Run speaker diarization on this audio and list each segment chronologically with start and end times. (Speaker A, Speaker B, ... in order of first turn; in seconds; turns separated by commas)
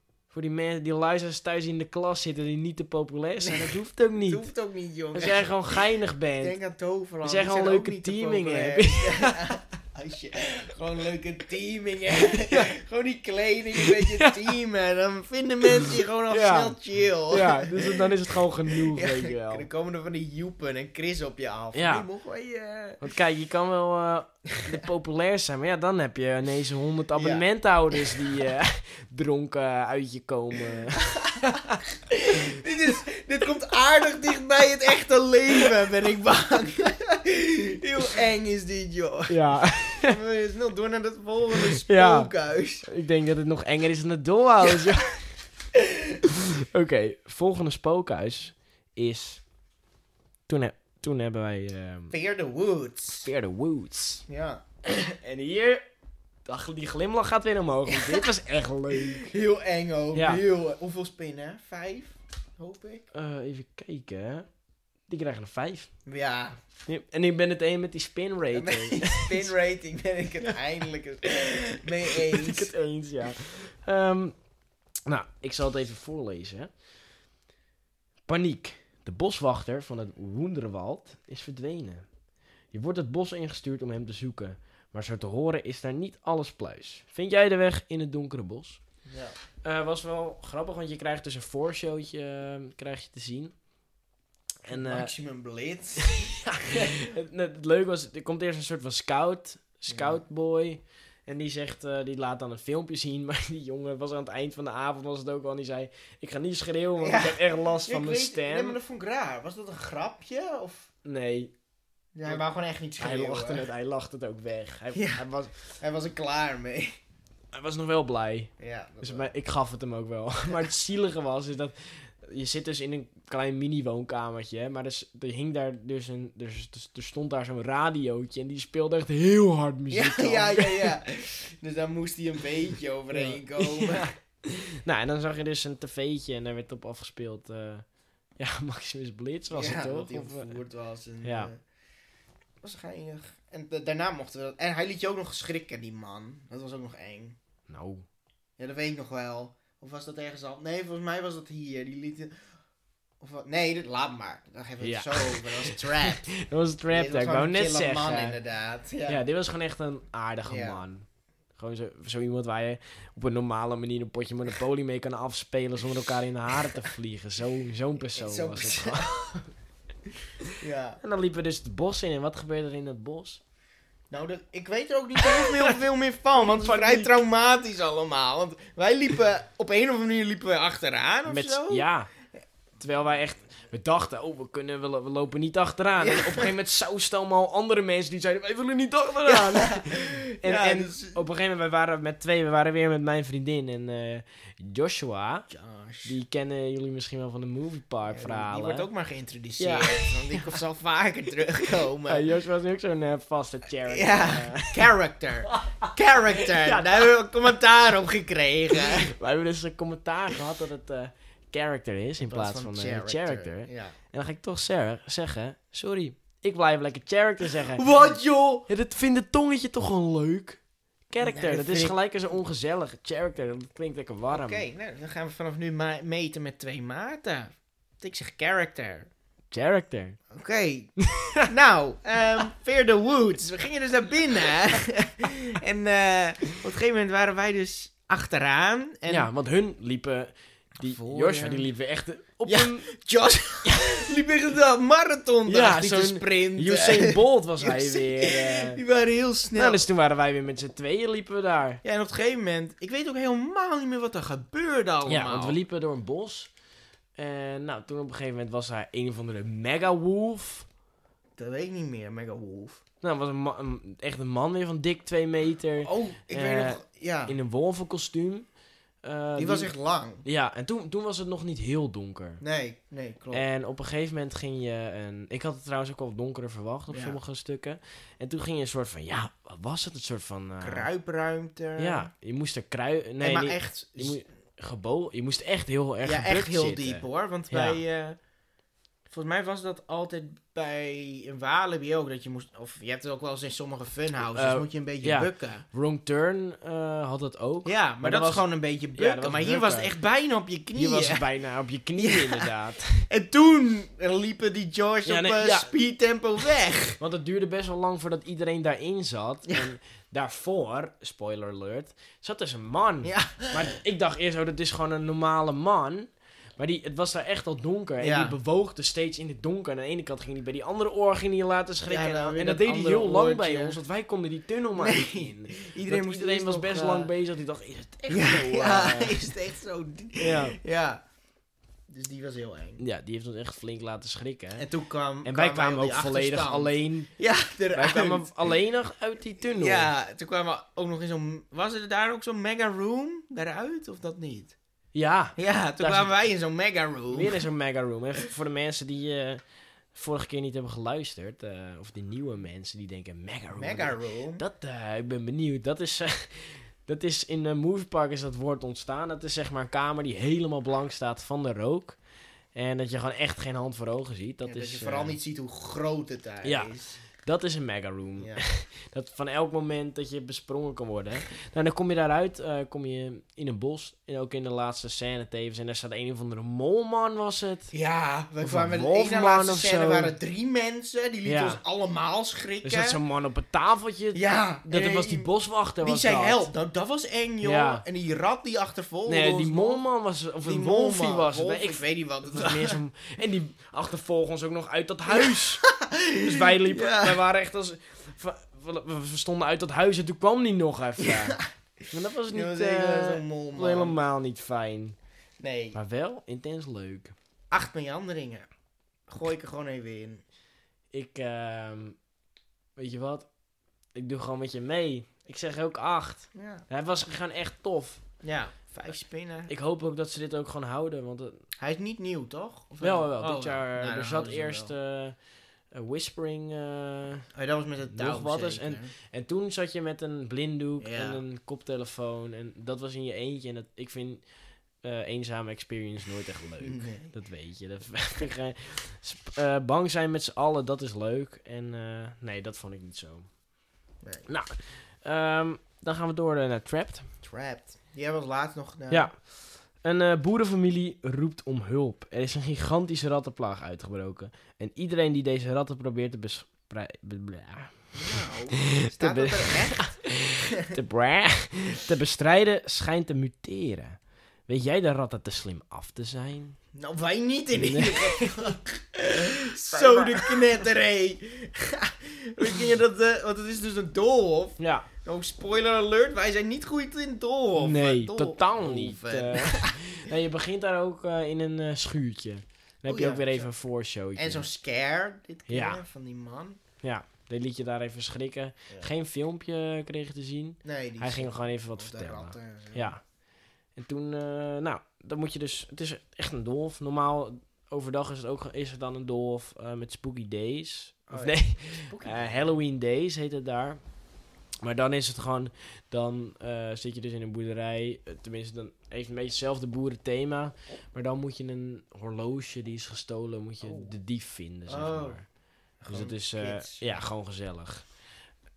Speaker A: 0.3-4.5, Speaker B: 3.4-5.8, Speaker A: 5.1-6.6, Speaker B: 6.4-18.1, Speaker A: 7.2-9.4, Speaker A: 13.8-14.4, Speaker A: 15.8-16.8, Speaker A: 17.3-19.7, Speaker B: 18.7-23.0, Speaker A: 21.7-22.1, Speaker A: 23.0-31.8, Speaker B: 27.2-28.2, Speaker B: 31.0-42.9, Speaker A: 39.3-40.1, Speaker A: 41.8-42.3, Speaker A: 42.9-45.2, Speaker B: 44.6-44.9, Speaker B: 45.7-46.2, Speaker A: 46.3-49.4, Speaker A: 50.5-52.1, Speaker B: 52.1-53.3, Speaker A: 53.2-54.2, Speaker B: 54.3-54.6, Speaker A: 54.9-55.8, Speaker A: 56.5-59.3, Speaker B: 57.9-58.3, Speaker B: 58.9-63.1, Speaker A: 60.1-60.4, Speaker A: 63.1-64.5, Speaker A: 65.1-65.9, Speaker B: 66.1-66.6, Speaker A: 66.9-69.5, Speaker B: 68.5-72.7, Speaker A: 72.1-74.4, Speaker A: 75.1-76.7, Speaker A: 78.3-82.0, Speaker A: 82.7-88.8, Speaker B: 89.1-89.4, Speaker A: 89.6-93.5, Speaker A: 94.6-95.1, Speaker B: 94.7-96.9, Speaker A: 96.0-108.8, Speaker B: 99.9-100.2, Speaker B: 107.0-110.9, Speaker A: 111.0-111.5, Speaker B: 112.2-113.7, Speaker A: 113.0-115.6, Speaker B: 114.9-115.2, Speaker B: 115.8-116.9, Speaker A: 117.5-131.0, Speaker B: 118.6-119.3, Speaker B: 129.9-134.1, Speaker A: 133.1-137.8, Speaker A: 138.4-140.6, Speaker B: 139.5-141.6, Speaker A: 141.2-141.5, Speaker B: 142.6-147.4, Speaker A: 147.7-148.1, Speaker B: 148.6-152.3, Speaker B: 153.2-156.3, Speaker A: 154.8-158.4, Speaker B: 156.9-159.2, Speaker A: 159.1-169.5, Speaker B: 160.5-160.8, Speaker B: 168.1-169.2, Speaker A: 170.4-173.4, Speaker B: 170.6-171.0, Speaker B: 174.1-181.8, Speaker A: 175.2-175.8, Speaker A: 176.4-177.2, Speaker A: 181.3-182.1, Speaker A: 182.8-195.5, Speaker B: 186.0-186.5, Speaker B: 189.3-191.2, Speaker B: 195.5-196.1, Speaker A: 196.1-198.9, Speaker B: 198.1-202.3, Speaker A: 199.6-200.5, Speaker A: 202.1-204.9, Speaker B: 203.9-209.1, Speaker A: 205.5-207.1, Speaker A: 208.8-218.1, Speaker B: 212.2-214.0, Speaker B: 217.7-218.7, Speaker A: 218.7-224.6, Speaker B: 221.2-222.0, Speaker B: 224.3-229.1, Speaker A: 229.5-230.2, Speaker B: 230.3-230.9, Speaker A: 231.0-231.5, Speaker B: 231.5-239.3, Speaker A: 239.1-242.9, Speaker B: 240.8-241.7, Speaker B: 242.5-249.8, Speaker A: 243.7-244.0, Speaker A: 245.5-248.8, Speaker A: 249.6-251.8, Speaker B: 251.8-255.6, Speaker A: 255.1-256.5, Speaker A: 257.2-260.7, Speaker B: 261.4-262.8, Speaker A: 263.0-268.5, Speaker B: 265.8-267.4, Speaker A: 269.0-269.7, Speaker B: 269.4-270.2, Speaker A: 270.2-272.4, Speaker B: 272.4-273.4, Speaker A: 273.3-280.9, Speaker B: 276.9-277.2, Speaker B: 280.6-282.1, Speaker A: 281.8-287.8, Speaker B: 283.2-284.2, Speaker B: 286.0-288.2, Speaker B: 289.1-295.6, Speaker A: 294.3-299.9, Speaker B: 297.6-301.3, Speaker A: 300.8-303.1, Speaker B: 302.0-307.0, Speaker A: 305.1-305.7, Speaker A: 307.0-329.3, Speaker B: 313.0-313.8, Speaker B: 318.0-318.4, Speaker B: 321.9-323.8, Speaker B: 324.8-327.1, Speaker B: 328.1-331.0, Speaker A: 330.2-330.6, Speaker B: 331.9-332.8, Speaker A: 332.8-334.7, Speaker B: 334.6-338.5, Speaker A: 335.2-337.1, Speaker A: 337.7-339.9, Speaker B: 339.4-344.6, Speaker A: 344.9-346.1, Speaker B: 345.4-347.4, Speaker A: 347.1-349.4, Speaker A: 349.9-362.0, Speaker B: 353.5-354.4, Speaker A: 362.6-365.2, Speaker B: 364.4-367.0, Speaker A: 366.4-377.7, Speaker B: 368.2-368.4, Speaker B: 377.7-383.0, Speaker A: 378.4-380.1, Speaker A: 381.2-381.6, Speaker A: 382.6-386.5, Speaker B: 384.1-389.8, Speaker A: 387.4-387.8, Speaker A: 389.1-395.7, Speaker B: 390.4-392.8, Speaker B: 395.1-397.2, Speaker A: 396.2-405.0, Speaker B: 401.0-401.4, Speaker B: 402.3-404.0, Speaker B: 405.4-405.8, Speaker A: 405.7-407.1, Speaker B: 407.5-408.5, Speaker B: 409.1-410.2, Speaker A: 410.9-412.0, Speaker A: 412.8-413.3, Speaker A: 413.9-418.0, Speaker B: 416.3-416.7, Speaker B: 418.2-419.5, Speaker A: 419.5-421.4, Speaker B: 421.6-424.7, Speaker A: 422.8-425.2, Speaker A: 425.7-427.3, Speaker B: 427.3-428.9, Speaker A: 427.9-434.2, Speaker B: 430.8-431.2, Speaker A: 434.8-443.3, Speaker B: 436.6-437.1, Speaker B: 444.0-444.3, Speaker A: 444.3-447.1, Speaker B: 447.2-449.1, Speaker A: 448.9-449.2, Speaker A: 449.8-466.6, Speaker B: 457.9-460.0, Speaker B: 466.7-480.1, Speaker A: 467.5-468.6, Speaker A: 469.3-470.4, Speaker A: 474.6-474.9, Speaker A: 477.6-484.5, Speaker B: 482.9-483.5, Speaker B: 484.2-486.6, Speaker A: 485.5-485.8, Speaker A: 486.8-493.0, Speaker B: 490.6-492.9, Speaker A: 493.8-503.8, Speaker B: 501.1-502.5, Speaker A: 504.6-515.2, Speaker B: 513.6-513.9, Speaker B: 514.7-515.2, Speaker B: 515.8-517.0, Speaker A: 515.9-517.9